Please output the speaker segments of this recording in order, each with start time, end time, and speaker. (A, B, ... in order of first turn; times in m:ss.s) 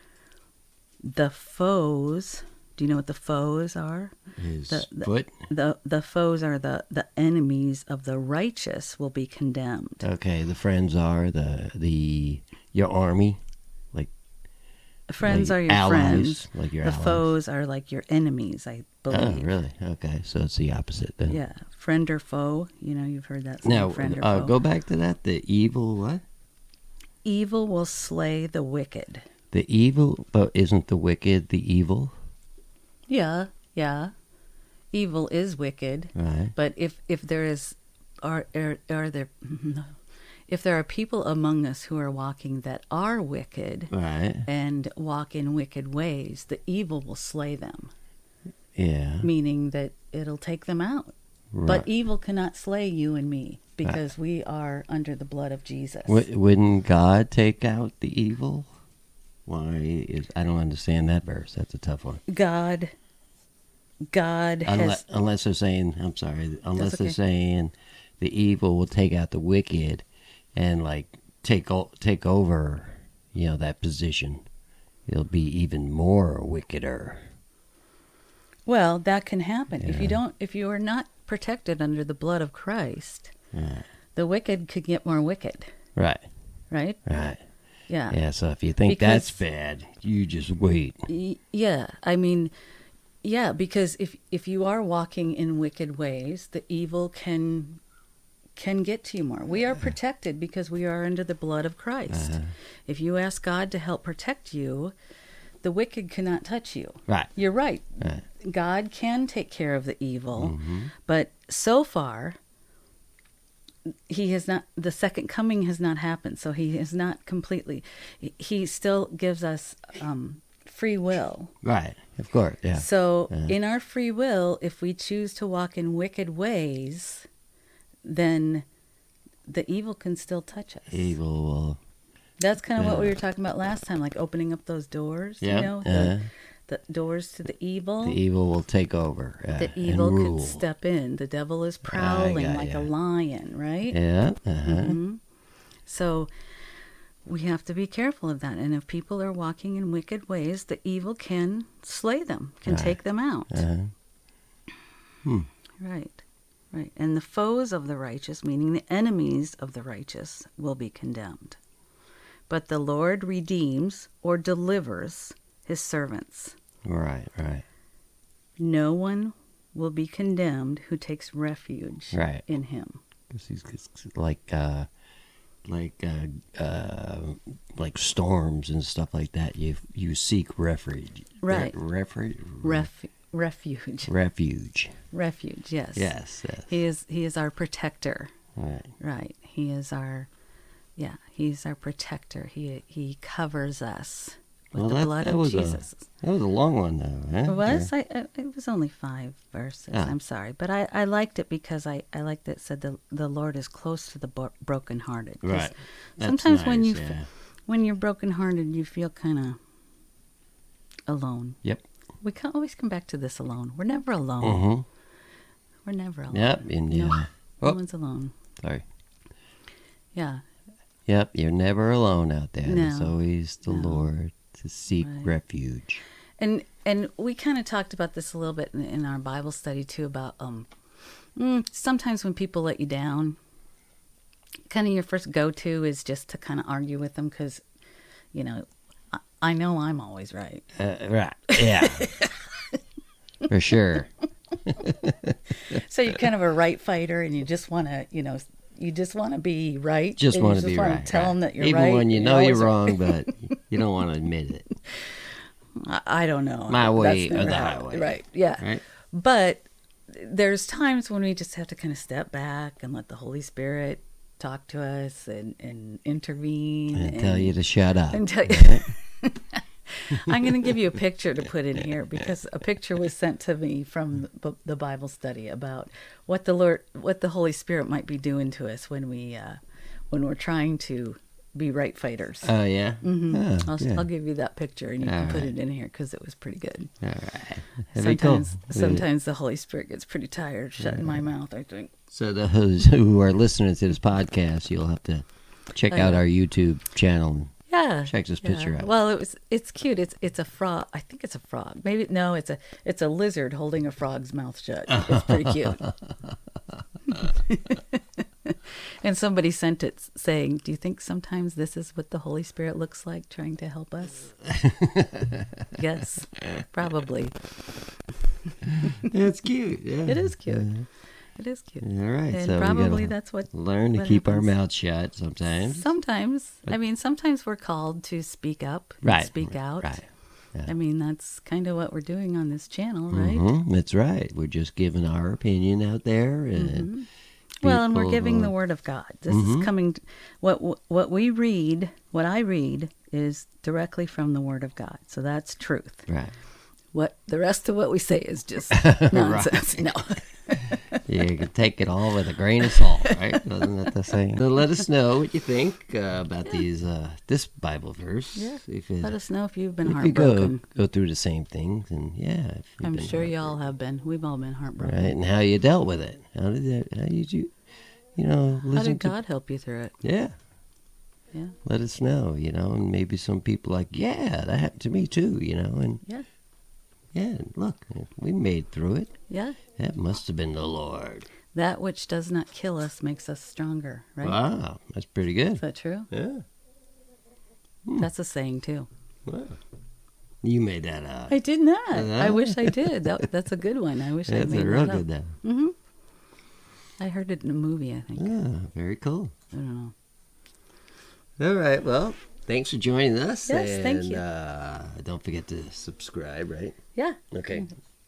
0:01.0-0:04.2 A
0:04.4-0:05.3 B
0:04.7-0:10.1 A
0:10.0-0:13.4 B
0:15.1-0:19.5 A
0:15.2-0:17.3 B
0:19.1-0:21.4 B
0:21.3-0:24.6 A
0:23.6-0:26.2 B
0:27.2-0:29.3 A
0:29.5-0:32.1 B
0:33.1-0:34.1 A
0:34.9-0:39.9 A
0:36.2-0:36.5 B
0:40.5-0:43.9 A
0:43.9-0:44.5 B
0:44.5-0:47.9 A
0:48.8-0:49.3 B
0:49.2-0:51.1 A
0:51.5-0:51.9 B
0:51.6-0:56.2 A
0:56.1-0:58.7 B
0:59.5-1:02.2 B
1:02.3-1:02.9 A
1:04.1-1:05.0 A
1:04.6-1:14.4 B
1:06.8-1:07.2 A
1:15.1-1:17.3 B
1:18.7-1:23.3 A
1:19.8-1:20.2 B
1:23.5-1:23.9 B
1:24.2-1:25.7 A
1:26.0-1:26.2 B
1:26.7-1:27.0 A
1:27.0-1:27.4 B
1:27.9-1:28.2 A
1:28.1-1:31.1 B
1:28.8-1:29.4 A
1:31.1-1:32.5 A
1:33.2-1:37.8 A
1:38.6-1:42.4 A
1:42.1-1:42.5 B
1:42.9-1:44.9 A
1:45.6-1:52.4 A
1:50.4-1:50.9 B
1:54.1-2:01.5 A
2:01.6-2:03.6 B
2:02.8-2:07.3 A
2:08.0-2:08.6 A
2:09.5-2:11.2 A
2:10.9-2:11.8 B
2:12.4-2:18.2 A
2:12.8-2:13.1 B
2:15.4-2:16.3 B
2:18.0-2:20.6 B
2:19.5-2:24.0 A
2:21.9-2:22.9 B
2:23.9-2:25.0 B
2:24.6-2:25.2 A
2:25.9-2:26.3 A
2:27.2-2:33.6 A
2:32.7-2:33.0 B
2:33.5-2:33.9 B
2:35.8-2:41.6 A
2:42.5-2:46.6 A
2:46.8-2:47.6 B
2:48.6-2:53.0 A
2:52.1-2:52.4 B
2:53.3-2:54.9 B
2:55.7-3:02.9 B
3:01.4-3:01.8 A
3:02.6-3:04.1 A
3:04.1-3:05.0 B
3:05.1-3:06.1 A
3:06.0-3:06.7 B
3:06.7-3:08.3 A
3:08.6-3:08.9 B
3:09.0-3:10.3 A
3:11.0-3:16.1 A
3:14.8-3:17.9 B
3:17.5-3:29.6 A
3:25.4-3:27.3 B
3:31.1-3:31.6 A
3:32.2-3:34.6 A
3:34.4-3:34.9 B
3:35.9-3:38.3 A
3:36.3-3:37.8 B
3:38.6-3:38.8 B
3:40.2-3:40.4 A
3:41.1-3:46.0 B
3:42.6-3:43.2 A
3:43.7-3:44.1 A
3:45.0-3:45.3 A
3:46.4-3:50.7 A
3:51.4-3:53.4 A
3:54.7-3:57.6 A
3:58.3-4:00.7 A
4:00.8-4:02.1 B
4:01.5-4:02.8 A
4:03.5-4:04.1 B
4:04.7-4:05.8 B
4:05.6-4:13.3 A
4:10.2-4:14.7 B
4:15.8-4:27.6 A
4:16.7-4:18.8 B
4:26.9-4:28.9 B
4:28.1-4:39.6 A
4:40.1-4:46.9 A
4:42.4-4:44.1 B
4:45.0-4:45.5 B
4:47.0-4:49.1 B
4:47.9-4:51.9 A
4:50.8-4:51.3 B
4:52.1-4:57.5 B
4:55.9-4:56.2 A
4:57.7-5:05.8 A
4:58.1-4:58.9 B
5:04.9-5:06.0 B
5:07.1-5:14.4 A
5:14.4-5:15.7 B
5:15.8-5:17.5 A
5:18.7-5:20.9 B
5:18.8-5:19.1 A
5:20.1-5:20.7 A
5:21.4-5:24.5 A
5:21.8-5:25.9 B
5:25.6-5:30.0 A
5:29.0-5:30.7 B
5:30.7-5:33.5 A
5:33.1-5:36.9 B
5:36.6-5:37.1 A
5:37.6-5:46.1 A
5:37.6-5:38.5 B
5:39.3-5:39.7 B
5:46.1-5:46.3 B
5:46.9-5:51.0 A
5:48.7-5:50.0 B
5:51.0-5:59.2 B
5:52.6-5:53.4 A
5:58.4-6:00.6 A
5:59.8-6:03.6 B
6:02.8-6:05.1 A
6:04.8-6:07.5 B
6:08.2-6:09.2 B
6:08.7-6:10.0 A
6:10.0-6:10.3 B
6:11.6-6:16.0 B
6:17.1-6:19.2 B
6:19.3-6:19.6 A
6:19.8-6:21.3 B
6:21.5-6:24.4 A
6:24.2-6:26.4 B
6:25.6-6:26.1 A
6:28.0-6:28.9 A
6:29.3-6:29.6 B
6:30.4-6:31.4 B
6:31.3-6:35.8 A
6:31.9-6:33.2 B
6:34.3-6:35.4 B
6:37.0-6:38.4 A
6:38.2-6:39.3 B
6:39.5-6:39.9 A
6:41.4-6:46.8 B
6:43.5-6:44.2 A
6:47.0-6:47.6 A
6:47.3-6:47.7 B